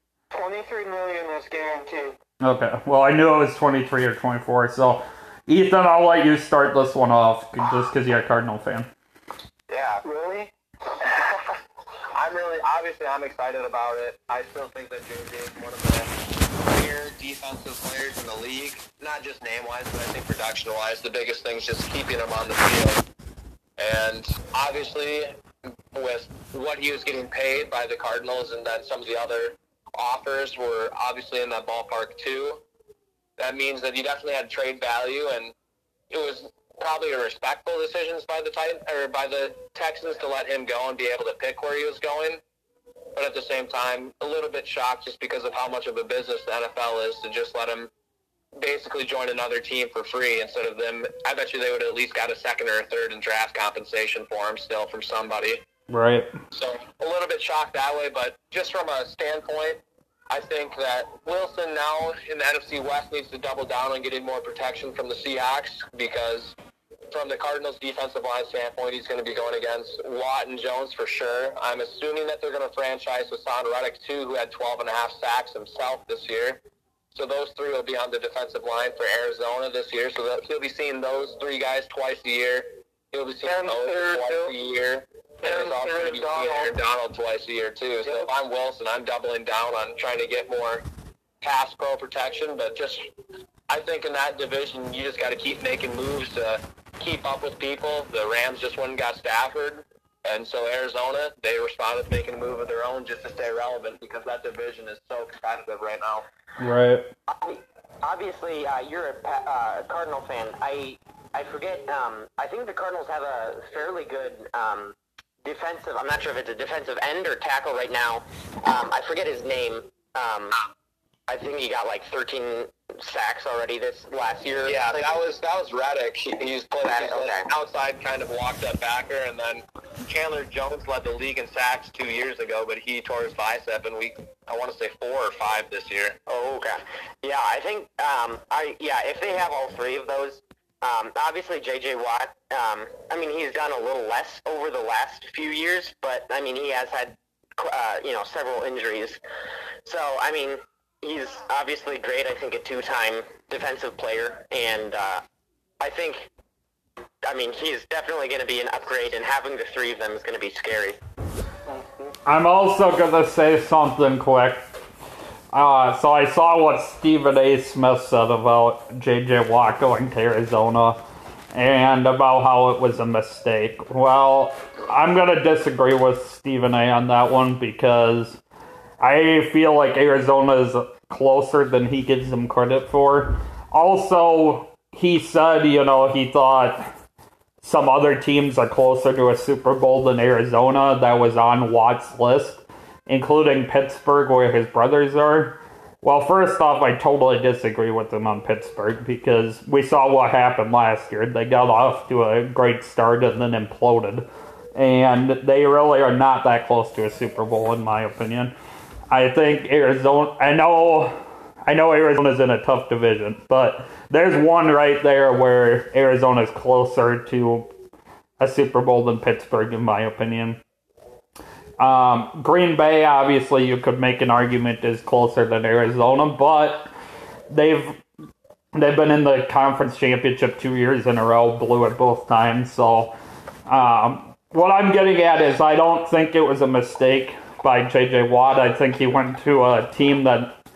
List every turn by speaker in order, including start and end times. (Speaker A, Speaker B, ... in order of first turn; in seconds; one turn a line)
Speaker A: 0.3-2.2
Speaker B: 2.4-8.9
Speaker C: 9.7-10.0
Speaker A: 10.0-10.5
Speaker C: 12.1-23.0
Speaker C: 23.8-25.3
Speaker C: 25.9-32.6
Speaker C: 33.4-35.5
Speaker C: 36.1-42.4
Speaker C: 43.1-47.9
Speaker C: 48.6-55.6
Speaker B: 55.9-56.3
Speaker C: 56.5-66.5
Speaker C: 67.1-76.6
Speaker C: 77.1-90.8
Speaker A: 83.4-84.5
Speaker A: 85.4-86.8
Speaker C: 91.4-93.0
Speaker C: 93.7-106.2
Speaker B: 106.6-107.1
Speaker D: 107.3-120.6
Speaker D: 121.3-125.0
Speaker C: 124.7-136.2
Speaker D: 126.8-127.5
Speaker D: 136.3-149.2
Speaker D: 149.8-155.2
Speaker D: 155.8-156.3
Speaker D: 157.2-161.0
Speaker A: 161.7-162.2
Speaker B: 162.3-164.7
Speaker B: 165.5-171.0
Speaker B: 171.5-178.4
Speaker B: 179.0-186.9
Speaker B: 187.6-208.5
Speaker B: 209.1-217.7
Speaker B: 218.4-220.6
Speaker B: 221.8-226.9
Speaker B: 227.5-228.0
Speaker B: 228.7-233.2
Speaker B: 233.7-240.6